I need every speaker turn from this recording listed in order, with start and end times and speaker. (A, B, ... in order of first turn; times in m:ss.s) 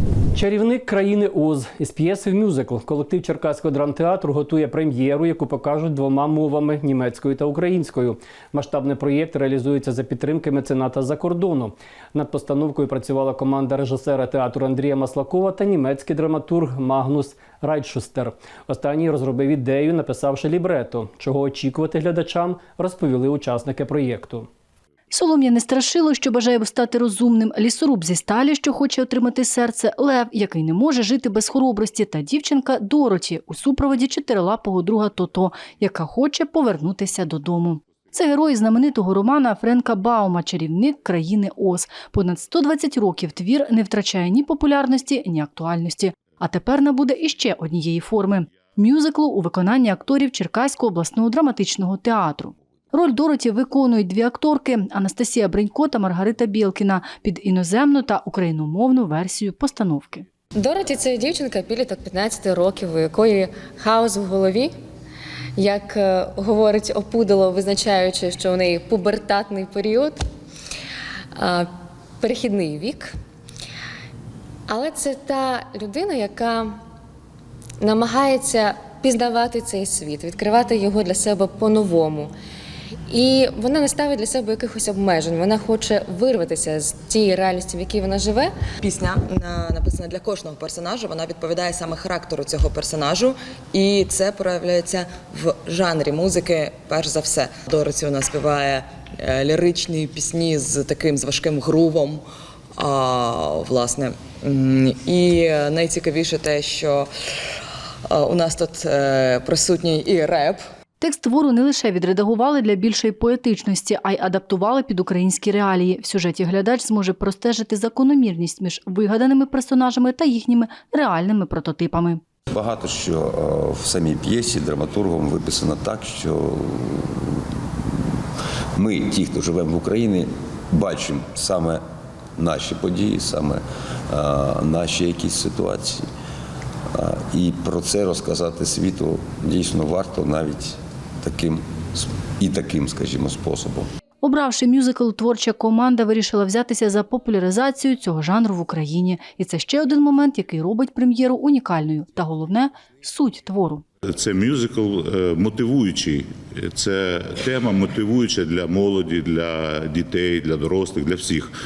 0:00.4-0:24.5 A
0:25.1-1:00.2 B
1:00.6-1:04.8 C
1:05.6-1:10.3 C
1:11.3-1:13.1 C
1:14.7-1:16.8 C
1:17.8-1:22.4 C
1:23.1-1:28.5 C
1:28.8-1:42.2 D
1:42.8-1:47.1 D
1:48.1-1:50.6 D
1:51.0-2:02.2 B
2:02.5-2:07.5 E
2:08.8-2:11.8 E
2:12.4-2:16.1 E
2:16.9-2:23.9 E
2:24.2-2:33.8 B
2:34.0-2:41.5 F